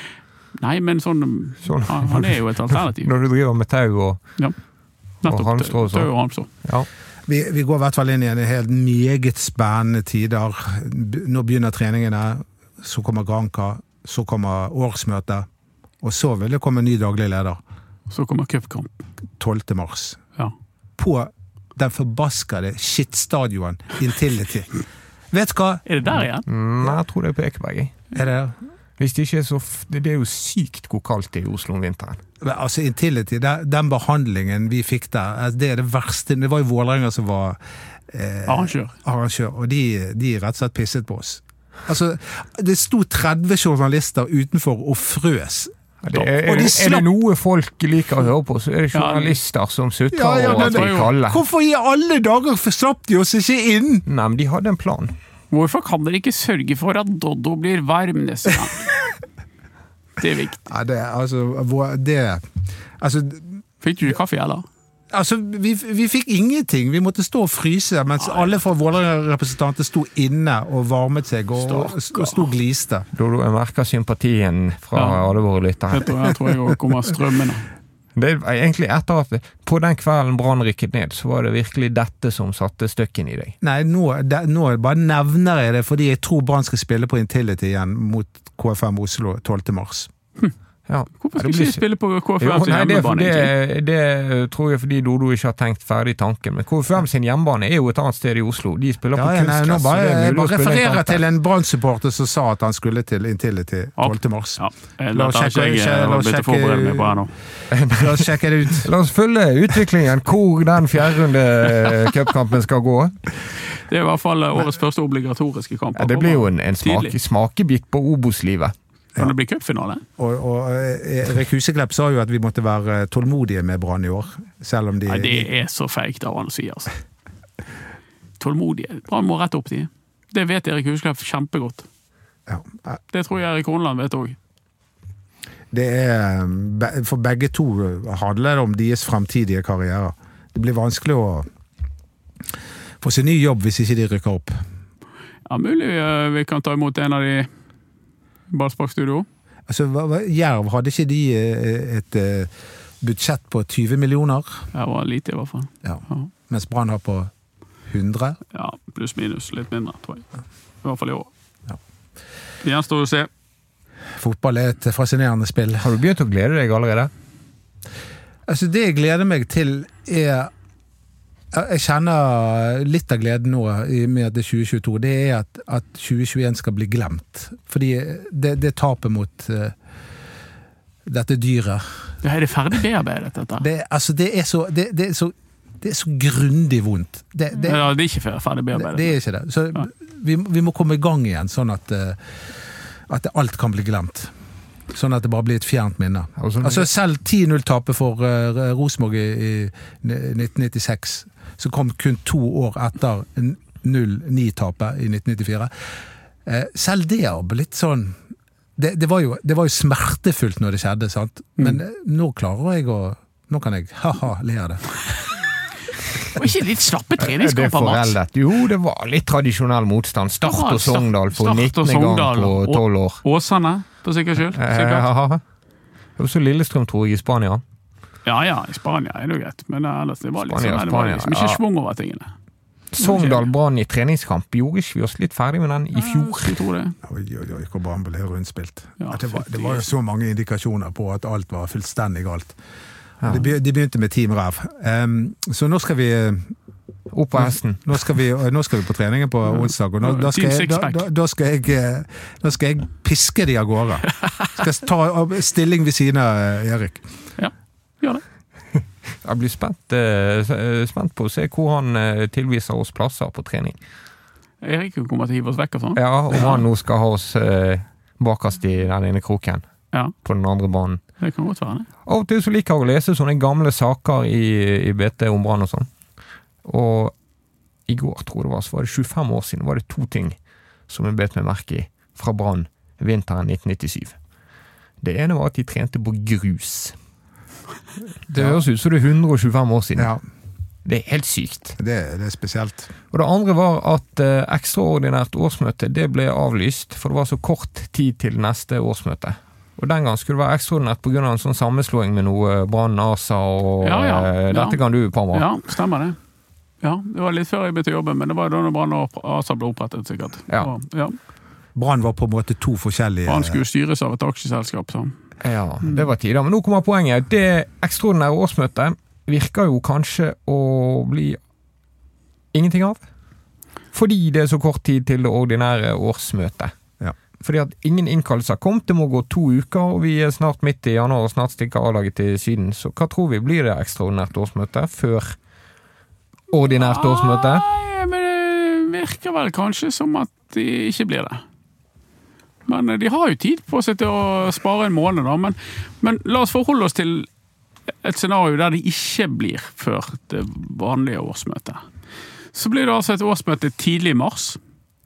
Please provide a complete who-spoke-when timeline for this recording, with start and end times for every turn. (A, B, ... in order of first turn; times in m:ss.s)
0:00.6-0:03.1 A
0:01.6-0:04.2 B
0:05.2-0:06.5 A
0:05.2-0:06.1 B
0:07.3-0:15.5 C
0:16.0-0:17.6 C
0:18.1-0:19.0 A
0:19.4-0:20.2 C
0:21.0-0:24.7 C
0:25.3-0:25.8 C
0:25.8-0:26.5 A
0:26.4-0:27.9 B
0:28.1-0:28.6 C
0:29.0-0:32.2 B
0:32.4-0:47.1 C
0:38.4-0:38.9 A
0:46.0-0:51.4 B
0:48.9-0:49.4 A
0:50.1-0:54.0 C
0:50.4-0:51.1 A
0:54.1-0:55.1 B
0:55.5-0:58.9 A
1:00.2-1:00.6 A
1:00.6-1:03.6 C
1:03.8-1:04.6 A
1:05.1-1:13.1 C
1:11.6-1:12.5 A
1:13.1-1:16.3 B
1:15.9-1:17.6 A
1:18.2-1:23.5 B
1:23.6-1:30.1 C
1:30.9-1:31.8 B
1:31.2-1:33.5 A
1:32.4-1:41.2 B
1:39.1-1:44.6 C
1:44.0-1:47.3 A
1:45.1-1:47.2 C
1:47.7-1:53.3 B
1:47.9-1:48.9 C
1:53.8-1:57.2 A
1:56.0-1:58.7 B
1:59.2-2:00.0 A
2:00.2-2:05.5 C
2:05.1-2:06.9 A
2:08.4-2:11.8 A
2:12.5-2:13.0 C
2:13.1-2:14.4 A
2:15.7-2:21.5 C
2:23.0-2:24.6 C
2:25.4-2:27.5 A
2:28.5-2:29.3 A
2:29.7-2:34.6 C
2:34.7-2:36.3 A
2:35.8-2:37.3 C
2:37.9-2:38.4 C
2:38.5-2:40.3 A
2:40.8-2:41.3 A
2:42.6-2:43.3 A
2:44.1-2:45.9 C
2:45.8-2:47.1 B
2:48.5-2:50.5 C
2:51.5-2:59.7 C
3:01.0-3:02.0 C
3:02.2-3:03.6 A
3:03.6-3:07.9 C
3:07.6-3:09.1 A
3:08.7-3:12.3 C
3:13.1-3:14.3 C
3:14.9-3:25.7 C
3:16.4-3:16.9 B
3:26.4-3:28.2 C
3:28.8-3:34.8 C
3:36.3-3:38.2 A
3:37.2-3:43.2 B
3:40.4-3:45.0 A
3:44.5-3:45.4 B
3:46.2-3:47.6 B
3:48.2-3:52.3 A
3:50.4-3:51.6 B
3:52.9-3:56.6 B
3:53.0-3:53.5 A
3:55.9-3:56.9 A
3:57.0-4:02.5 C
3:59.0-3:59.9 A
4:03.2-4:03.5 B
4:03.2-4:06.5 C
4:07.1-4:07.8 B
4:07.3-4:17.0 C
4:10.0-4:11.1 A
4:17.4-4:18.2 A
4:19.2-4:23.8 B
4:24.6-4:26.6 A
4:26.0-4:29.6 B
4:30.2-4:31.0 B
4:31.2-4:31.9 A
4:32.0-4:35.9 B
4:36.6-4:37.1 B
4:37.9-4:40.4 B
4:40.9-4:44.2 B
4:45.0-4:46.9 B
4:48.3-4:50.1 B
4:48.3-4:48.6 C
4:50.0-4:50.2 C
4:50.8-4:51.8 B
4:51.8-4:52.9 C
4:53.1-5:05.5 B
5:03.8-5:04.8 A
5:05.3-5:06.2 A
5:06.8-5:11.2 A
5:11.7-5:13.6 C
5:13.3-5:15.1 A
5:15.4-5:21.4 B
5:22.5-5:23.0 B
5:23.9-5:26.7 B
5:27.4-5:35.3 B
5:36.5-5:37.6 B
5:36.7-5:41.4 A
5:42.7-5:47.3 A
5:48.0-5:51.8 A
5:52.5-5:54.6 A